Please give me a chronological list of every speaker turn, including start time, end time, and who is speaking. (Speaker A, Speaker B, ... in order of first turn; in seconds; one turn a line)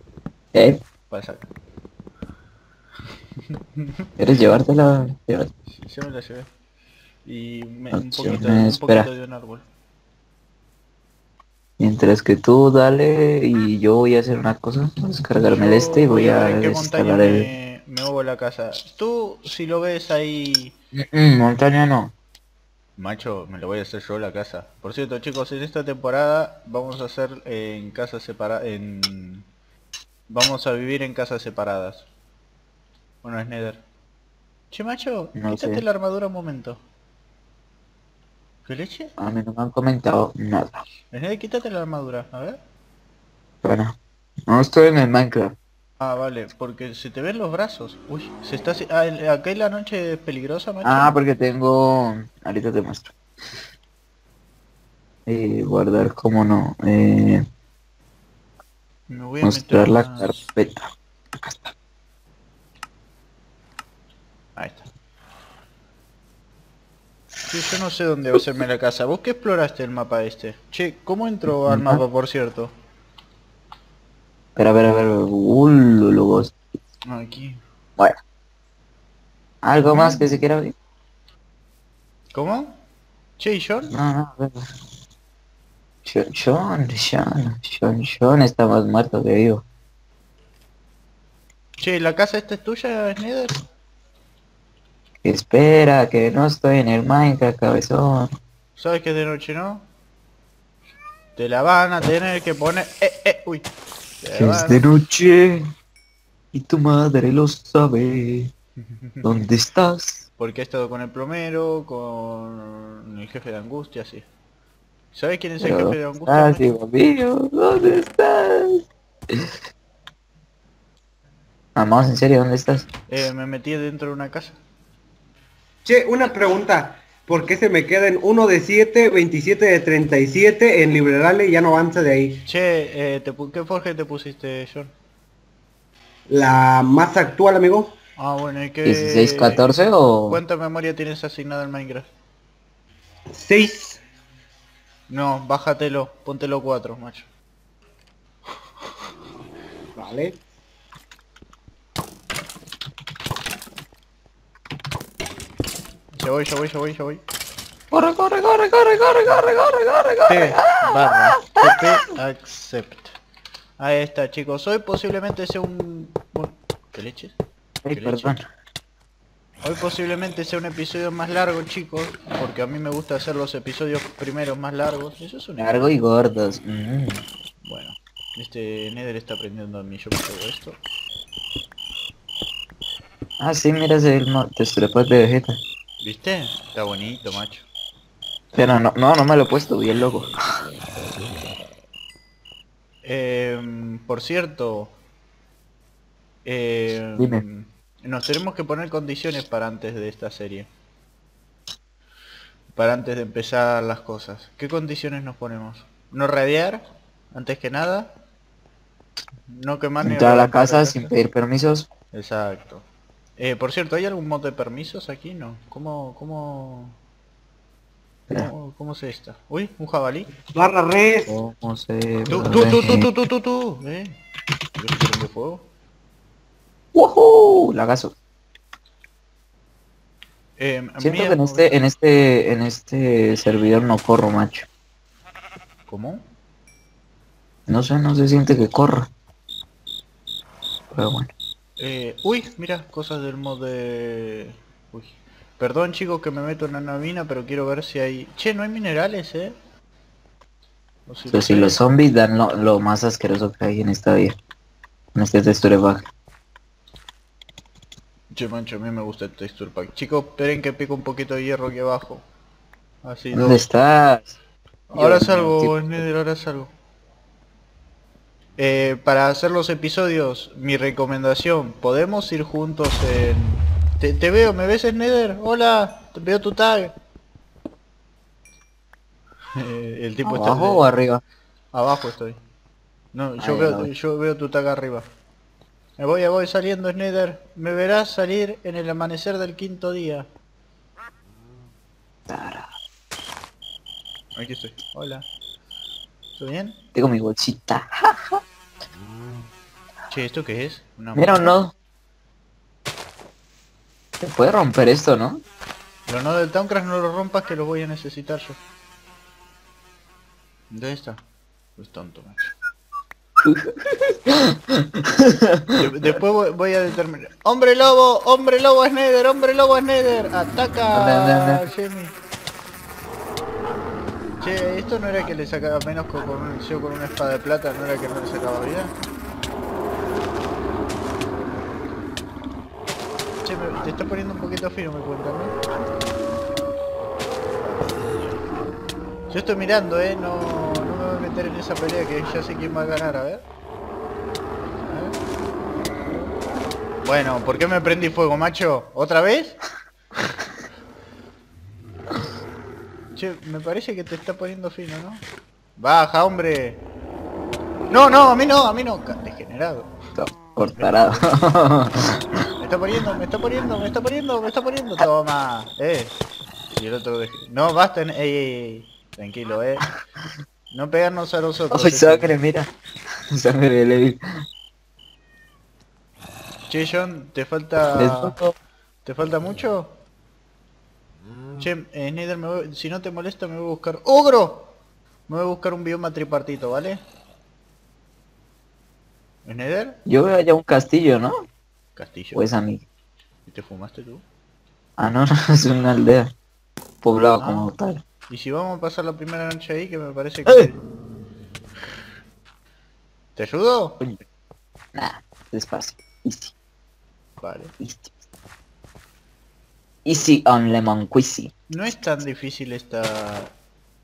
Speaker A: 0.5-0.8
Speaker B: 1.1-1.5
Speaker B: 3.5-4.1
Speaker A: 4.2-5.5
Speaker B: 5.7-6.5
Speaker B: 7.2-9.7
Speaker A: 7.9-9.1
Speaker A: 11.8-17.5
Speaker B: 15.5-20.8
Speaker A: 20.9-22.1
Speaker B: 23.0-29.5
Speaker B: 30.3-32.1
Speaker B: 33.2-33.8
Speaker B: 34.7-36.8
Speaker A: 35.4-35.8
Speaker B: 38.7-39.1
Speaker A: 39.2-40.8
Speaker B: 41.1-42.6
Speaker A: 43.6-44.0
Speaker A: 44.5-45.6
Speaker B: 46.0-51.1
Speaker A: 50.8-53.1
Speaker A: 55.3-57.5
Speaker B: 59.1-60.4
Speaker A: 59.4-60.9
Speaker B: 64.6-64.9
Speaker B: 67.5-72.7
Speaker A: 71.7-72.0
Speaker A: 74.6-76.5
Speaker B: 77.1-77.6
Speaker A: 79.6-80.7
Speaker B: 79.9-80.3
Speaker B: 82.3-82.8
Speaker B: 83.4-84.0
Speaker A: 83.9-84.7
Speaker A: 86.0-89.6
Speaker B: 91.8-93.6
Speaker A: 95.2-98.4
Speaker B: 98.8-99.9
Speaker B: 101.4-103.7
Speaker B: 104.2-104.8
Speaker A: 104.4-105.7
Speaker A: 106.5-108.5
Speaker B: 108.8-109.5
Speaker A: 109.2-110.2
Speaker B: 110.4-114.2
Speaker B: 115.1-116.7
Speaker A: 115.6-119.6
Speaker A: 121.8-122.9
Speaker B: 123.1-124.6
Speaker C: 125.8-132.5
Speaker B: 132.5-134.9
Speaker C: 136.3-138.0
Speaker B: 138.2-142.1
Speaker A: 138.8-140.4
Speaker C: 143.3-144.0
Speaker B: 145.1-147.3
Speaker C: 150.0-150.4
Speaker B: 156.1-157.2
Speaker A: 157.9-162.0
Speaker B: 160.3-163.2
Speaker B: 163.8-167.4
Speaker A: 167.8-168.4
Speaker B: 167.9-168.4
Speaker B: 169.6-175.9
Speaker A: 175.6-177.2
Speaker B: 177.6-180.8
Speaker A: 183.4-185.6
Speaker B: 186.0-187.7
Speaker A: 188.5-190.3
Speaker B: 193.0-195.0
Speaker B: 196.4-200.7
Speaker A: 197.2-197.4
Speaker B: 202.7-208.2
Speaker B: 209.5-211.1
Speaker A: 210.0-211.9
Speaker B: 212.1-212.8
Speaker B: 213.4-217.0
Speaker B: 218.3-220.3
Speaker C: 220.5-221.3
Speaker A: 221.3-223.1
Speaker B: 222.3-224.2
Speaker B: 224.8-225.7
Speaker A: 226.9-228.2
Speaker B: 230.6-231.8
Speaker A: 231.0-234.7
Speaker B: 235.9-236.2
Speaker A: 237.7-239.1
Speaker A: 240.9-241.3
Speaker B: 241.8-249.6
Speaker B: 251.1-251.8
Speaker A: 251.3-254.4
Speaker A: 255.2-256.1
Speaker B: 258.3-262.2
Speaker B: 263.0-263.6
Speaker A: 263.3-264.4
Speaker B: 264.9-266.7
Speaker A: 264.9-266.1
Speaker B: 268.6-276.9
Speaker B: 279.6-280.9
Speaker A: 280.2-281.2
Speaker B: 281.7-282.4
Speaker B: 283.1-285.1
Speaker A: 283.4-283.9
Speaker B: 286.0-290.3
Speaker A: 292.3-292.7
Speaker B: 294.4-295.3
Speaker B: 296.4-296.8
Speaker A: 296.9-298.4
Speaker B: 300.1-301.5
Speaker A: 301.1-301.7
Speaker A: 304.2-305.4
Speaker B: 306.1-308.6
Speaker B: 310.7-311.2
Speaker B: 311.8-312.6
Speaker A: 313.4-315.7
Speaker B: 315.8-322.1
Speaker A: 320.9-321.6
Speaker B: 324.4-328.9
Speaker B: 333.4-335.6
Speaker B: 339.3-343.5
Speaker B: 344.8-345.2
Speaker B: 347.0-349.6
Speaker B: 353.1-355.2
Speaker B: 355.8-356.8
Speaker B: 357.9-359.9
Speaker A: 360.1-362.2
Speaker B: 360.8-361.4
Speaker B: 362.6-366.2
Speaker B: 366.8-369.9
Speaker B: 370.7-372.4
Speaker A: 371.7-372.7
Speaker A: 373.3-374.2
Speaker B: 376.7-378.4
Speaker A: 377.9-378.6
Speaker B: 379.1-380.0
Speaker B: 381.6-384.7
Speaker B: 385.3-387.0
Speaker B: 389.4-390.0
Speaker A: 390.1-391.5
Speaker B: 392.0-392.5
Speaker A: 392.3-392.8
Speaker B: 393.5-394.2
Speaker A: 395.0-396.3
Speaker A: 397.0-398.0
Speaker B: 397.4-397.7
Speaker B: 398.3-400.8
Speaker B: 403.4-404.0
Speaker A: 404.9-406.5
Speaker B: 407.4-407.7
Speaker A: 407.8-408.1
Speaker A: 410.1-411.5
Speaker B: 411.7-413.5